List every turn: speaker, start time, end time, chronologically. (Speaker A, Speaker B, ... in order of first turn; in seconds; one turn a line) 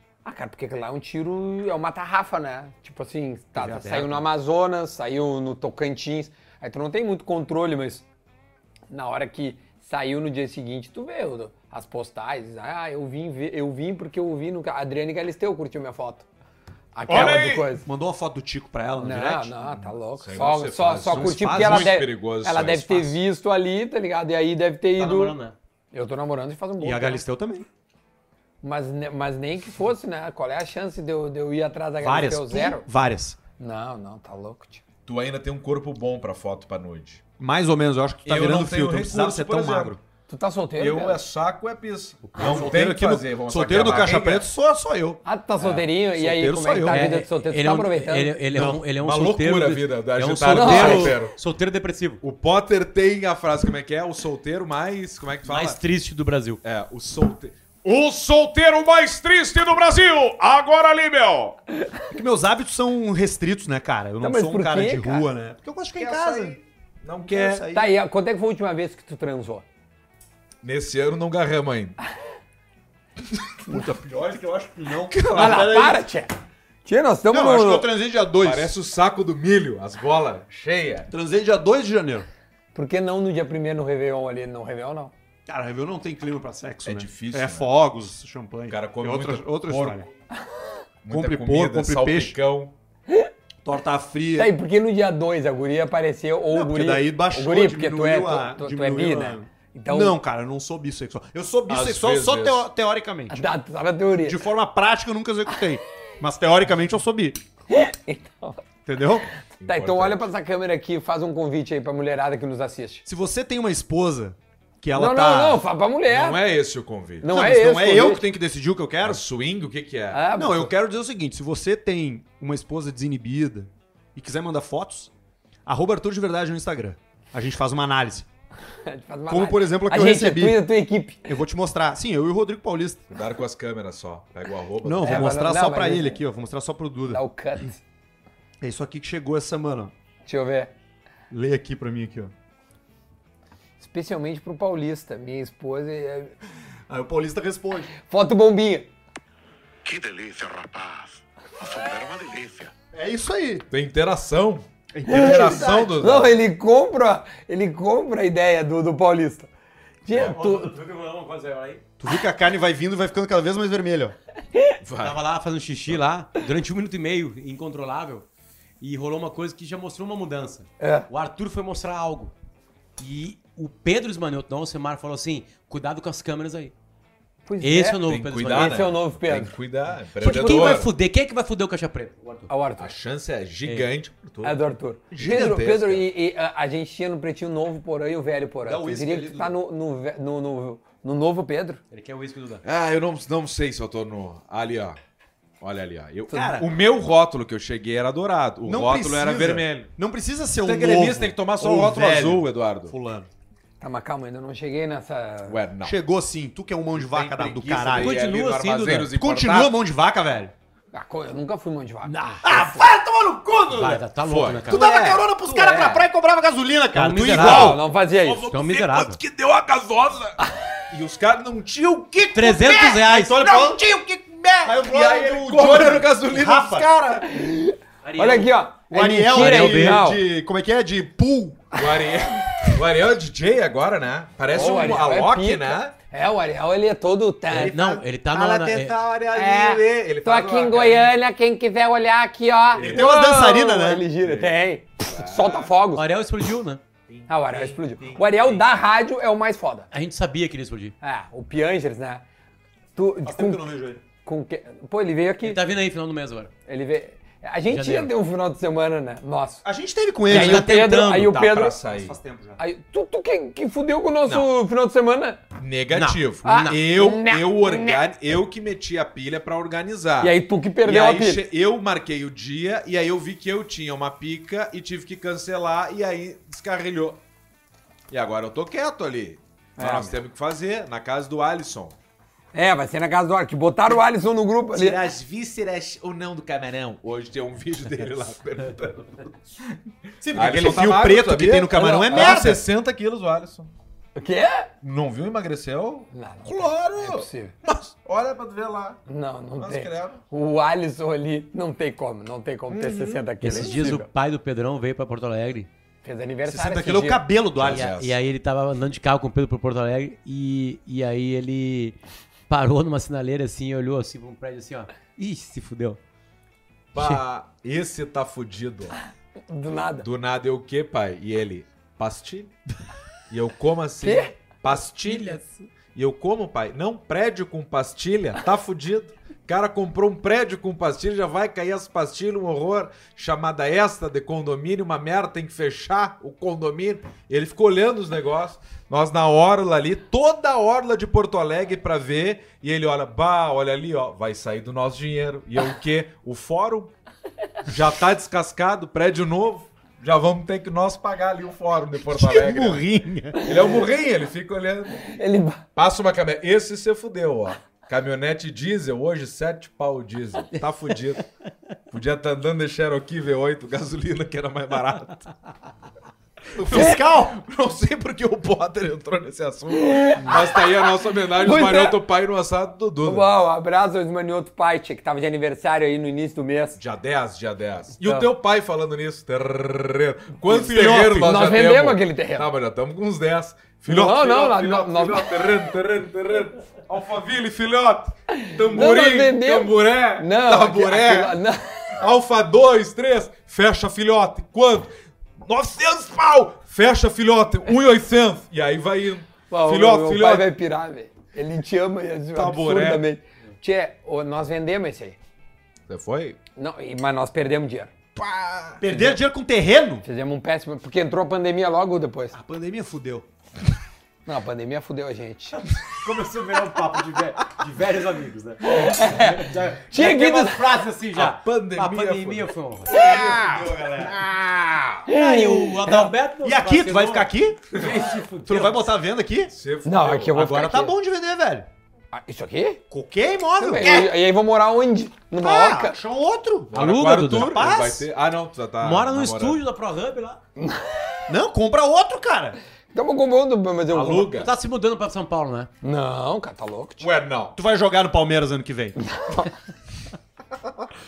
Speaker A: 0.2-8.0
Speaker B: 3.5-4.2
Speaker A: 8.9-16.2
Speaker A: 16.9-17.9
Speaker C: 17.1-17.7
Speaker B: 17.1-19.6
Speaker A: 19.0-25.4
Speaker C: 20.2-23.1
Speaker B: 21.0-22.0
Speaker D: 25.0-25.6
Speaker A: 25.9-27.2
Speaker B: 26.8-27.7
Speaker A: 28.6-32.8
Speaker B: 32.0-33.4
Speaker A: 33.6-34.8
Speaker C: 35.0-37.2
Speaker B: 37.4-40.0
Speaker C: 38.2-40.0
Speaker A: 40.3-41.2
Speaker C: 40.8-44.5
Speaker B: 42.4-47.2
Speaker D: 42.5-42.7
Speaker A: 45.2-48.4
Speaker D: 46.9-52.2
Speaker B: 48.5-48.8
Speaker C: 48.5-51.3
Speaker A: 50.5-51.2
Speaker B: 50.7-51.1
Speaker C: 52.2-55.8
Speaker D: 55.5-56.6
Speaker C: 56.6-61.6
Speaker B: 62.1-66.6
Speaker A: 64.2-65.3
Speaker C: 65.9-67.6
Speaker B: 67.2-67.9
Speaker A: 67.7-69.6
Speaker C: 70.6-72.0
Speaker B: 73.7-76.0
Speaker A: 75.3-76.3
Speaker A: 76.8-77.9
Speaker B: 77.3-78.7
Speaker C: 78.4-81.1
Speaker B: 81.1-82.3
Speaker A: 82.7-85.1
Speaker B: 85.5-90.1
Speaker C: 86.8-87.7
Speaker C: 88.7-90.1
Speaker C: 91.0-92.7
Speaker B: 91.1-92.3
Speaker B: 93.6-94.5
Speaker A: 94.3-100.2
Speaker B: 96.5-103.4
Speaker C: 101.7-102.7
Speaker A: 103.3-104.4
Speaker B: 104.2-107.4
Speaker A: 107.7-108.6
Speaker B: 108.8-109.3
Speaker C: 109.6-110.2
Speaker A: 109.6-113.0
Speaker B: 113.0-115.6
Speaker A: 114.9-116.4
Speaker C: 116.1-117.3
Speaker A: 117.2-118.2
Speaker B: 117.3-119.2
Speaker C: 119.0-120.3
Speaker A: 120.1-120.7
Speaker B: 120.3-125.1
Speaker B: 125.7-128.3
Speaker A: 128.8-131.3
Speaker B: 129.3-130.6
Speaker B: 131.2-133.1
Speaker C: 133.1-135.4
Speaker B: 134.8-137.2
Speaker A: 135.0-136.2
Speaker A: 137.1-137.8
Speaker B: 138.6-139.9
Speaker A: 140.2-140.7
Speaker B: 141.3-142.3
Speaker A: 143.8-146.3
Speaker B: 146.9-147.9
Speaker A: 148.0-148.9
Speaker E: 149.8-152.7
Speaker B: 152.9-153.7
Speaker C: 153.7-156.4
Speaker B: 154.9-155.9
Speaker A: 155.1-159.5
Speaker A: 160.0-160.7
Speaker D: 160.1-161.8
Speaker B: 162.0-164.2
Speaker C: 164.8-165.2
Speaker D: 165.0-168.2
Speaker D: 168.8-172.3
Speaker A: 170.8-171.1
Speaker D: 173.0-176.7
Speaker A: 177.5-179.6
Speaker D: 177.6-178.9
Speaker C: 178.0-180.9
Speaker D: 180.2-182.5
Speaker A: 180.2-180.8
Speaker A: 182.5-182.9
Speaker C: 182.8-184.6
Speaker A: 184.4-191.8
Speaker C: 185.1-186.0
Speaker B: 185.1-185.5
Speaker B: 188.6-189.5
Speaker D: 191.9-192.6
Speaker C: 192.6-195.0
Speaker C: 195.6-199.9
Speaker B: 196.3-196.7
Speaker B: 198.6-203.3
Speaker C: 200.6-202.9
Speaker A: 203.8-205.6
Speaker C: 205.4-206.0
Speaker B: 205.8-208.2
Speaker C: 206.9-209.8
Speaker D: 207.9-209.1
Speaker B: 209.1-210.5
Speaker A: 210.9-212.8
Speaker B: 212.4-214.0
Speaker D: 213.7-215.2
Speaker C: 214.2-215.2
Speaker B: 214.7-217.8
Speaker A: 215.4-216.1
Speaker D: 216.9-217.8
Speaker C: 217.3-220.4
Speaker A: 217.3-218.5
Speaker D: 218.5-219.2
Speaker C: 220.9-227.3
Speaker D: 222.3-223.4
Speaker B: 223.0-223.8
Speaker B: 224.6-226.9
Speaker A: 227.3-230.2
Speaker D: 228.0-228.5
Speaker B: 228.9-231.7
Speaker D: 229.3-230.0
Speaker C: 231.7-235.9
Speaker A: 234.5-237.8
Speaker C: 237.5-241.1
Speaker D: 237.6-239.0
Speaker A: 239.3-246.0
Speaker C: 242.8-243.1
Speaker B: 242.8-244.1
Speaker C: 244.2-245.7
Speaker D: 245.9-246.8
Speaker C: 247.1-248.6
Speaker A: 247.3-249.9
Speaker D: 249.9-250.9
Speaker A: 251.0-252.2
Speaker A: 252.9-253.6
Speaker B: 253.2-254.0
Speaker A: 254.2-255.6
Speaker D: 255.4-256.5
Speaker A: 256.6-259.6
Speaker D: 257.7-258.1
Speaker B: 259.6-261.2
Speaker A: 260.3-261.8
Speaker D: 260.3-261.2
Speaker C: 261.2-262.1
Speaker B: 261.9-262.6
Speaker A: 262.6-265.4
Speaker C: 265.6-277.2
Speaker D: 265.9-266.8
Speaker A: 266.4-268.0
Speaker A: 270.2-271.4
Speaker C: 278.1-281.9
Speaker A: 279.8-280.2
Speaker A: 282.5-285.0
Speaker C: 284.7-293.7
Speaker B: 290.2-292.6
Speaker A: 291.8-292.4
Speaker A: 294.1-294.7
Speaker C: 294.8-299.0
Speaker A: 296.1-297.5
Speaker A: 299.1-304.1
Speaker C: 299.6-300.2
Speaker C: 302.7-303.7
Speaker D: 303.4-305.7
Speaker A: 306.0-307.2
Speaker B: 306.4-307.9
Speaker C: 307.5-308.2
Speaker D: 307.7-312.0
Speaker D: 312.5-316.0
Speaker C: 316.9-318.9
Speaker A: 319.5-320.1
Speaker C: 320.0-322.5
Speaker C: 323.3-325.4
Speaker A: 324.0-324.3
Speaker D: 325.1-325.4
Speaker C: 325.9-346.9
Speaker C: 347.6-352.8
Speaker B: 352.1-353.5
Speaker C: 353.4-355.1
Speaker A: 355.0-355.6
Speaker C: 355.8-361.2
Speaker C: 361.9-365.3
Speaker B: 366.6-367.4
Speaker C: 366.6-373.3
Speaker A: 369.7-370.8
Speaker A: 371.3-372.0
Speaker A: 373.0-376.8
Speaker C: 376.8-391.4
Speaker A: 378.0-378.3
Speaker B: 380.5-381.4
Speaker A: 381.2-382.5
Speaker A: 383.9-385.4
Speaker A: 388.3-391.9
Speaker C: 392.0-400.5
Speaker A: 399.5-405.2
Speaker C: 402.3-403.0
Speaker C: 405.9-406.4
Speaker A: 406.6-407.9
Speaker C: 408.1-408.8
Speaker B: 408.8-410.0
Speaker A: 408.9-409.2
Speaker A: 410.0-412.4
Speaker B: 412.3-413.2
Speaker A: 414.2-415.6
Speaker D: 415.9-423.1
Speaker A: 418.6-420.6
Speaker C: 421.1-425.1
Speaker B: 422.9-424.2
Speaker A: 425.1-426.1
Speaker D: 425.1-428.9
Speaker B: 426.4-427.8
Speaker B: 428.4-429.5
Speaker C: 429.5-430.4
Speaker A: 429.8-430.9
Speaker B: 430.3-431.7
Speaker A: 432.1-432.8
Speaker B: 432.9-434.1
Speaker A: 433.6-436.0
Speaker B: 435.4-436.8
Speaker C: 436.7-439.6
Speaker D: 436.7-437.7
Speaker B: 437.3-438.0
Speaker D: 438.8-440.4
Speaker A: 440.6-440.8
Speaker B: 441.3-442.6
Speaker A: 442.9-444.4
Speaker C: 443.9-444.5
Speaker D: 444.4-445.7
Speaker A: 445.8-447.1
Speaker C: 447.0-447.6
Speaker B: 447.5-449.0
Speaker A: 449.1-449.5